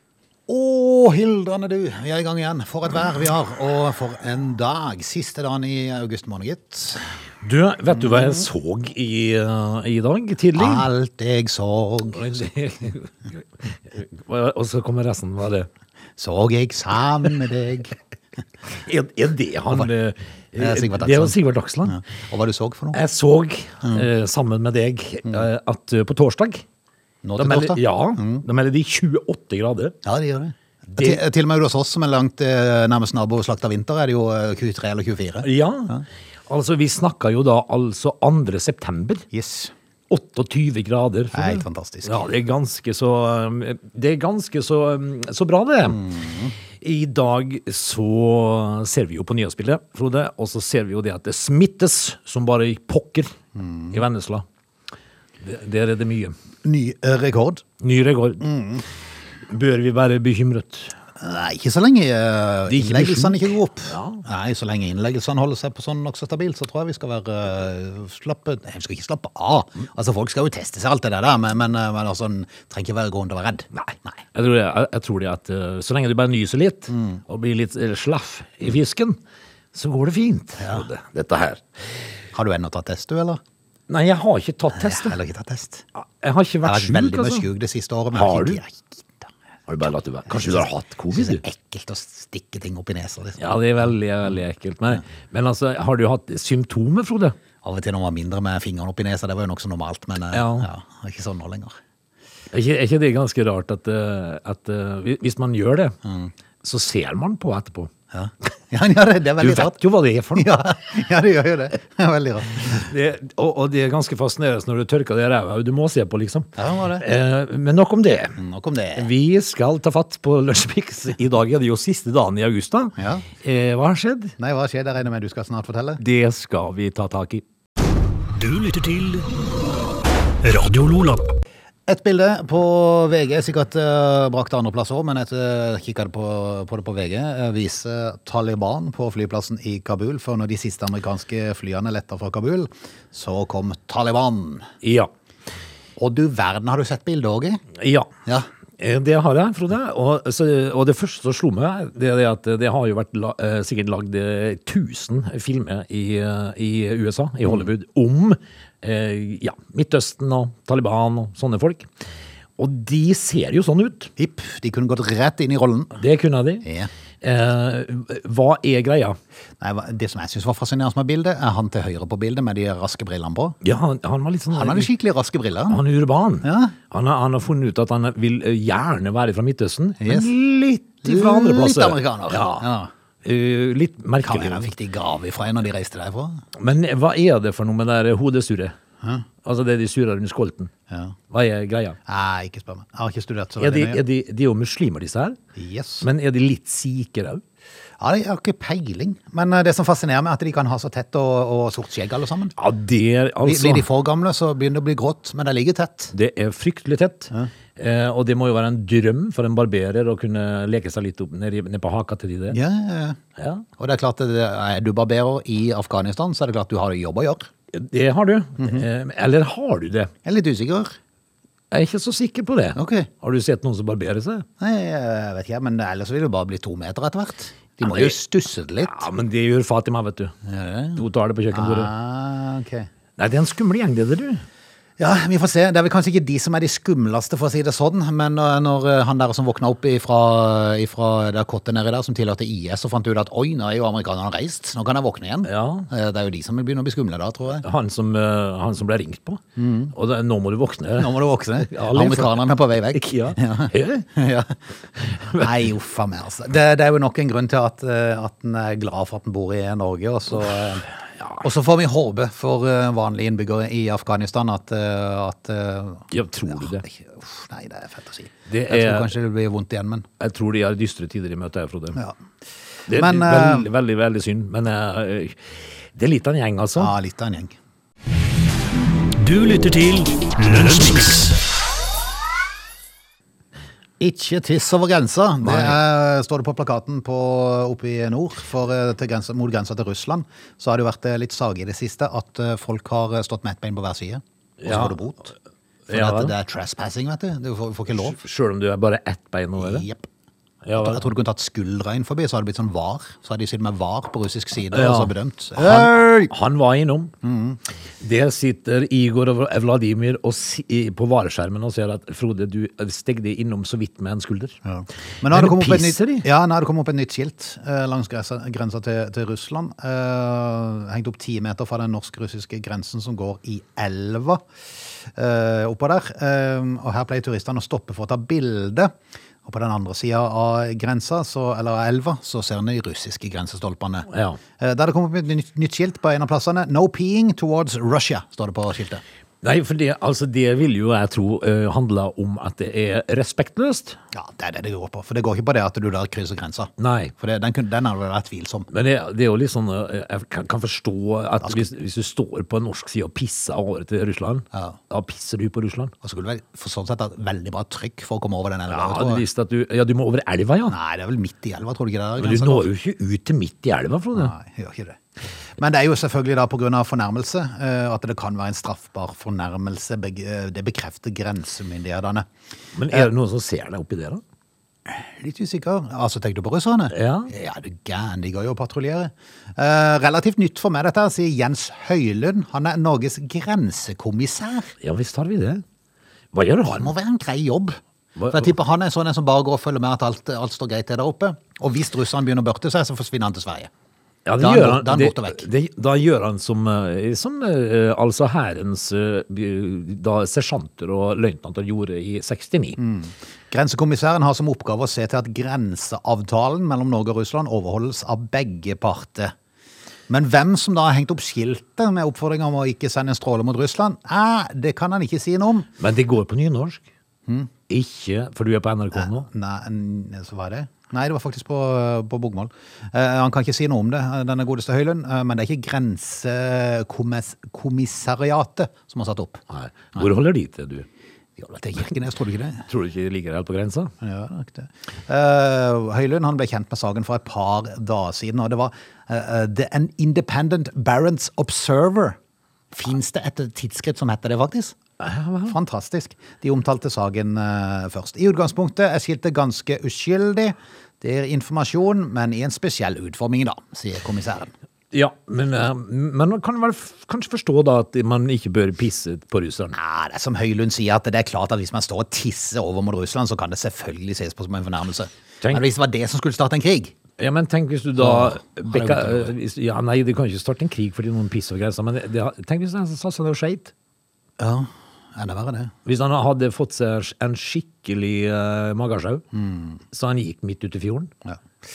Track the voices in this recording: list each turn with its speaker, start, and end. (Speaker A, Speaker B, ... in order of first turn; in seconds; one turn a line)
Speaker A: 0.5-7.0
Speaker B: 7.4-10.9
Speaker A: 8.0-8.4
Speaker A: 10.6-12.5
Speaker B: 12.1-15.7
Speaker A: 16.2-17.9
Speaker B: 18.7-22.0
Speaker A: 20.6-23.0
Speaker B: 22.9-26.6
Speaker A: 27.2-28.4
Speaker B: 27.4-30.0
Speaker A: 30.1-36.0
Speaker B: 35.4-35.9
Speaker B: 36.5-39.3
Speaker A: 39.3-39.7
Speaker B: 40.1-46.1
Speaker A: 41.3-42.3
Speaker A: 45.9-46.5
Speaker B: 46.8-53.3
Speaker A: 53.5-54.0
Speaker B: 53.9-54.5
Speaker B: 55.4-56.3
Speaker A: 56.6-57.6
Speaker B: 57.8-58.5
Speaker A: 58.4-58.8
Speaker B: 59.5-61.0
Speaker A: 61.2-73.7
Speaker B: 62.7-64.2
Speaker B: 73.7-79.2
Speaker A: 76.9-77.2
Speaker B: 79.7-81.6
Speaker A: 80.6-80.9
Speaker A: 82.3-83.4
Speaker B: 83.9-85.2
Speaker A: 84.7-85.8
Speaker B: 86.0-87.5
Speaker A: 86.6-89.3
Speaker B: 88.1-88.6
Speaker B: 89.7-91.4
Speaker A: 90.3-93.5
Speaker B: 93.4-97.3
Speaker A: 97.6-101.8
Speaker B: 100.3-100.7
Speaker B: 102.5-106.0
Speaker A: 106.0-106.3
Speaker B: 106.6-107.9
Speaker A: 108.1-109.8
Speaker B: 109.4-110.5
Speaker A: 110.3-112.9
Speaker B: 112.6-118.4
Speaker A: 116.6-117.0
Speaker A: 118.4-119.1
Speaker B: 118.9-124.4
Speaker A: 123.0-123.3
Speaker A: 124.4-126.0
Speaker B: 126.0-127.4
Speaker C: 128.4-129.3
Speaker C: 130.4-131.3
Speaker A: 131.9-144.7
Speaker B: 144.8-145.1
Speaker A: 146.0-147.6
Speaker B: 147.8-148.1
Speaker B: 148.8-161.9
Speaker B: 162.6-164.1
Speaker A: 164.2-166.0
Speaker B: 166.0-166.7
Speaker A: 166.6-166.9
Speaker B: 167.2-169.2
Speaker A: 169.6-173.6
Speaker B: 173.6-174.9
Speaker A: 174.5-175.8
Speaker B: 175.7-182.7
Speaker A: 176.4-176.8
Speaker A: 180.0-180.3
Speaker A: 181.0-182.9
Speaker B: 183.2-184.7
Speaker A: 184.2-186.4
Speaker B: 186.6-188.7
Speaker B: 189.4-190.7
Speaker A: 190.9-191.2
Speaker B: 191.3-192.0
Speaker A: 192.1-194.0
Speaker B: 193.6-195.4
Speaker A: 195.6-196.1
Speaker B: 196.0-197.4
Speaker A: 198.0-202.6
Speaker B: 202.6-203.9
Speaker A: 203.4-206.1
Speaker B: 206.1-212.6
Speaker A: 212.5-213.2
Speaker B: 213.4-213.7
Speaker A: 213.8-217.5
Speaker B: 217.7-220.1
Speaker A: 218.6-218.8
Speaker A: 220.2-221.0
Speaker B: 221.7-224.4
Speaker A: 222.8-223.1
Speaker A: 224.6-229.0
Speaker B: 227.8-228.2
Speaker B: 228.8-230.3
Speaker A: 230.4-232.9
Speaker B: 231.0-231.9
Speaker B: 233.2-234.4
Speaker A: 235.0-247.7
Speaker B: 245.5-245.9
Speaker B: 247.6-254.1
Speaker A: 249.6-249.9
Speaker A: 250.9-254.6
Speaker B: 255.0-255.6
Speaker A: 255.1-260.9
Speaker B: 261.2-261.4
Speaker A: 261.4-270.1
Speaker B: 266.1-266.8
Speaker B: 268.5-269.1
Speaker B: 270.2-272.0
Speaker B: 272.9-276.9
Speaker A: 272.9-273.7
Speaker A: 276.8-277.6
Speaker C: 279.2-281.4
Speaker A: 284.0-295.3
Speaker B: 285.4-285.8
Speaker B: 294.6-295.0
Speaker B: 295.9-296.3
Speaker A: 295.9-298.2
Speaker B: 298.0-299.9
Speaker A: 299.6-300.1
Speaker B: 300.6-301.1
Speaker A: 300.8-306.3
Speaker B: 304.7-307.1
Speaker A: 307.2-307.6
Speaker B: 308.0-314.6
Speaker A: 314.6-324.4
Speaker B: 315.3-316.3
Speaker A: 325.1-328.9
Speaker A: 329.4-339.0
Speaker B: 334.1-334.4
Speaker B: 339.4-344.0
Speaker A: 344.1-348.7
Speaker B: 346.8-347.1
Speaker B: 348.7-355.9
Speaker A: 354.5-354.8
Speaker A: 356.0-359.2
Speaker B: 358.7-360.8
Speaker A: 360.7-362.7
Speaker B: 362.2-364.3
Speaker A: 364.1-365.0
Speaker A: 365.6-372.3
Speaker B: 372.8-374.2
Speaker A: 374.9-384.7
Speaker B: 376.9-377.3
Speaker B: 384.8-385.6
Speaker B: 386.3-386.9
Speaker A: 386.7-393.7
Speaker B: 388.2-388.5
Speaker B: 394.2-402.8
Speaker A: 394.4-395.5
Speaker A: 402.8-409.3
Speaker A: 410.1-415.7
Speaker B: 415.8-416.8
Speaker B: 417.7-419.2
Speaker A: 418.9-429.4
Speaker B: 429.5-430.9
Speaker A: 431.4-432.7
Speaker B: 432.7-433.9
Speaker A: 434.0-442.2
Speaker A: 442.7-444.8
Speaker B: 445.0-445.6
Speaker A: 445.4-454.5
Speaker B: 454.9-459.8
Speaker A: 459.7-466.9
Speaker B: 467.2-473.7
Speaker A: 468.0-469.3
Speaker A: 474.4-475.7
Speaker B: 475.9-479.2
Speaker A: 479.3-479.8
Speaker B: 479.9-481.1